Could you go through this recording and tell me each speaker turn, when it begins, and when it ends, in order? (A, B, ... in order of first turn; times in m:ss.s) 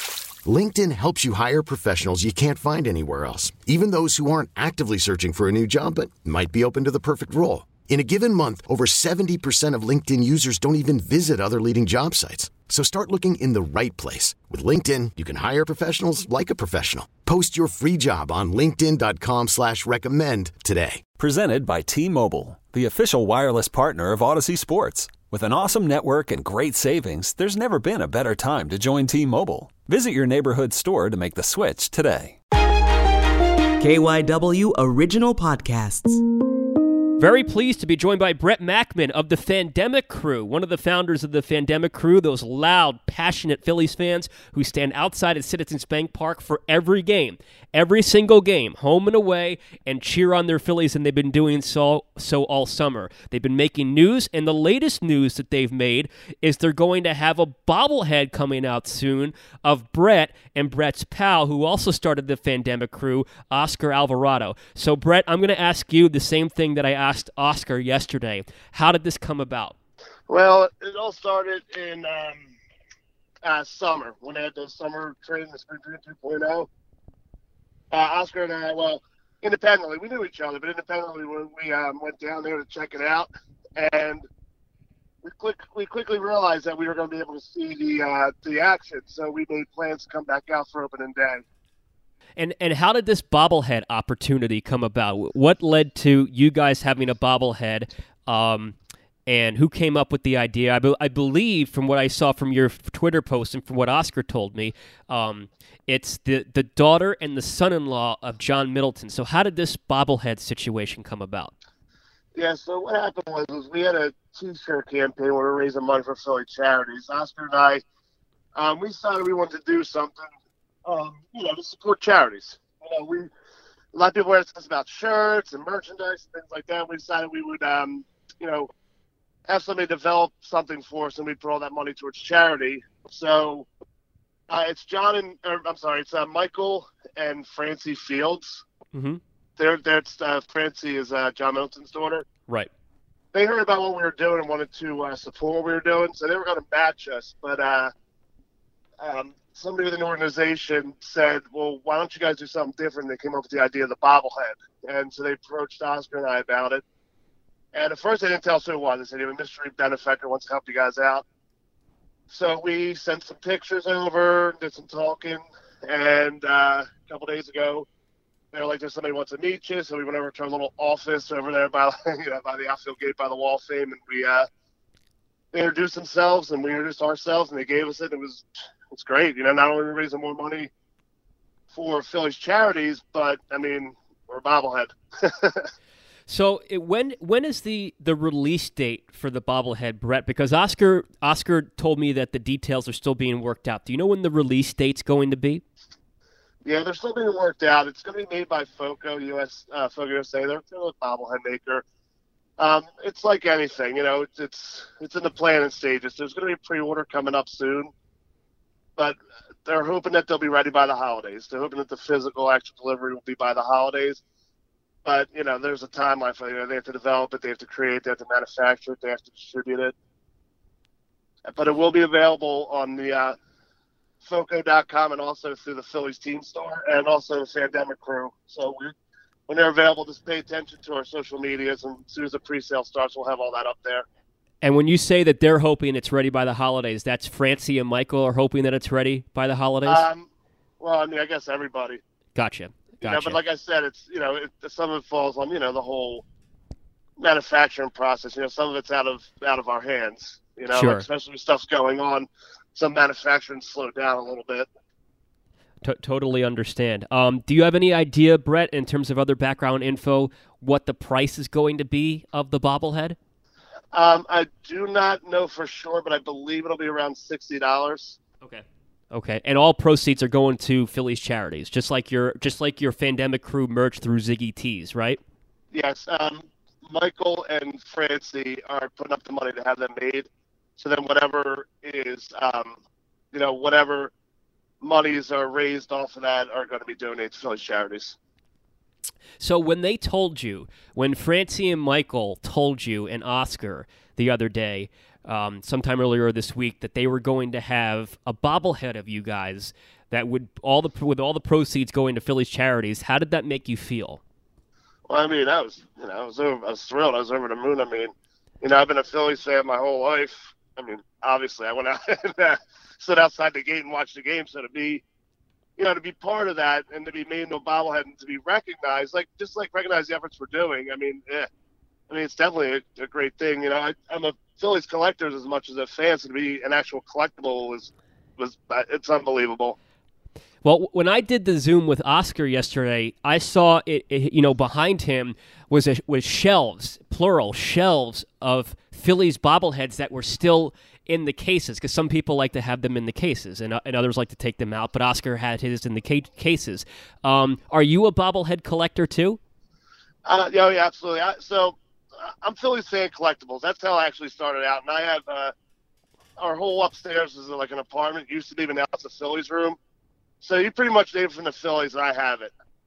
0:00.4-0:21.0 A
0:21.2-0:32.4 B
0:33.8-0:36.2 C
0:37.2-1:09.7 D
1:10.3-1:12.5 E
1:13.4-1:16.6 E
1:17.9-1:24.2 E
1:25.2-1:31.4 E
1:32.4-1:38.8 D
1:39.3-1:51.5 D
1:52.4-1:57.8 E
1:58.6-2:00.2 E
2:00.8-2:03.3 E
2:03.9-2:08.7 E
2:09.5-2:13.6 E
2:14.5-2:18.6 E
2:18.9-2:19.2 D
2:19.6-2:22.2 E
2:23.3-2:27.9 E
2:29.0-2:36.8 E
2:37.7-2:41.2 E
2:42.3-2:47.8 E
2:48.5-2:54.5 E
2:55.5-2:58.4 E
2:58.9-3:00.7 E
3:01.7-3:04.9 E
3:06.3-3:15.6 D
3:16.6-3:21.8 E
3:22.6-3:27.9 E
3:29.7-3:34.2 E
3:35.0-3:39.9 E
3:41.5-3:43.3 E
3:44.2-3:48.9 E
3:49.5-3:54.0 E
3:54.6-4:00.1 D
3:59.9-4:00.2 E
4:00.8-4:02.0 E
4:02.4-4:03.4 D
4:03.0-4:06.2 E
4:07.2-4:12.2 E
4:10.7-4:11.1 D
4:12.8-4:14.6 E
4:15.8-4:23.2 D
4:23.9-4:28.1 E
4:28.4-4:35.2 D
4:35.7-4:40.2 E
4:40.8-4:42.7 E
4:43.3-4:44.1 E
4:44.8-4:48.1 E
4:49.4-5:04.2 D
5:05.1-5:08.1 E
5:08.6-5:15.0 E
5:15.8-5:21.5 E
5:22.1-5:27.9 E
5:28.4-5:29.8 E
5:30.6-5:49.4 D
5:50.2-5:55.5 E
5:56.4-5:59.8 E
6:00.4-6:02.5 E